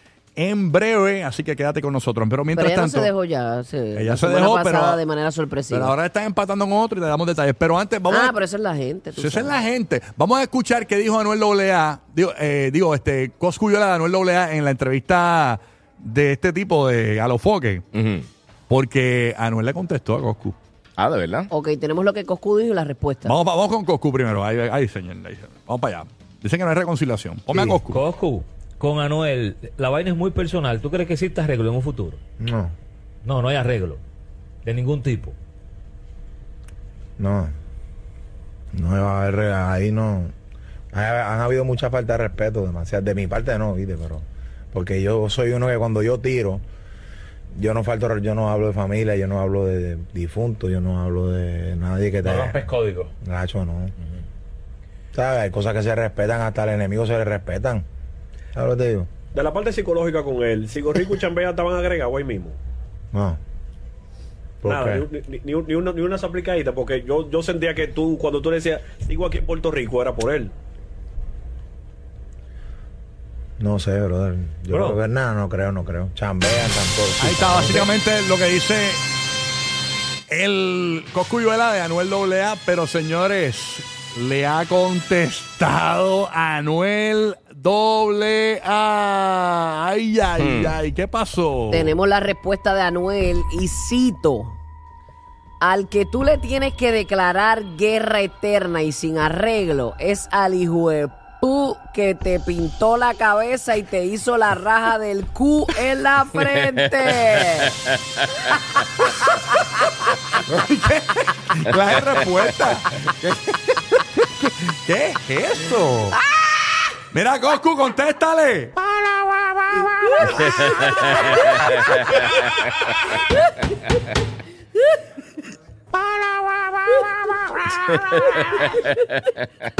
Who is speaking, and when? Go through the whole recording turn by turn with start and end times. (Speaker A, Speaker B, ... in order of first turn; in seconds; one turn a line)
Speaker A: 0.3-3.1
Speaker B: 2.5-5.9
Speaker A: 4.0-5.0
Speaker A: 5.7-8.4
Speaker B: 8.1-9.6
Speaker A: 9.1-17.9
Speaker C: 17.9-18.2
Speaker A: 18.7-20.6
Speaker C: 21.0-21.5
Speaker B: 21.5-23.3
Speaker A: 23.2-28.0
Speaker D: 27.6-32.2
Speaker E: 32.4-32.7
Speaker D: 33.2-34.0
Speaker D: 34.6-35.4
Speaker E: 37.2-37.5
Speaker E: 38.7-40.3
Speaker E: 40.9-46.6
Speaker E: 47.5-52.6
Speaker D: 52.2-53.1
Speaker E: 53.2-53.9
Speaker E: 55.1-57.8
Speaker E: 58.5-59.1
Speaker F: 59.3-62.6
Speaker E: 63.1-63.4
Speaker E: 64.6-65.0
Speaker F: 64.6-70.5
Speaker E: 73.6-77.9
Speaker F: 74.7-75.0
Speaker A: 77.2-79.0
Speaker A: 80.3-92.0
Speaker C: 90.4-90.8
Speaker B: 91.7-94.6
Speaker B: 95.6-107.8
Speaker A: 109.1-116.2
Speaker B: 116.4-116.8
Speaker A: 117.1-123.2
Speaker C: 120.4-121.8
Speaker B: 121.0-121.8
Speaker A: 125.9-128.8
Speaker B: 128.0-128.9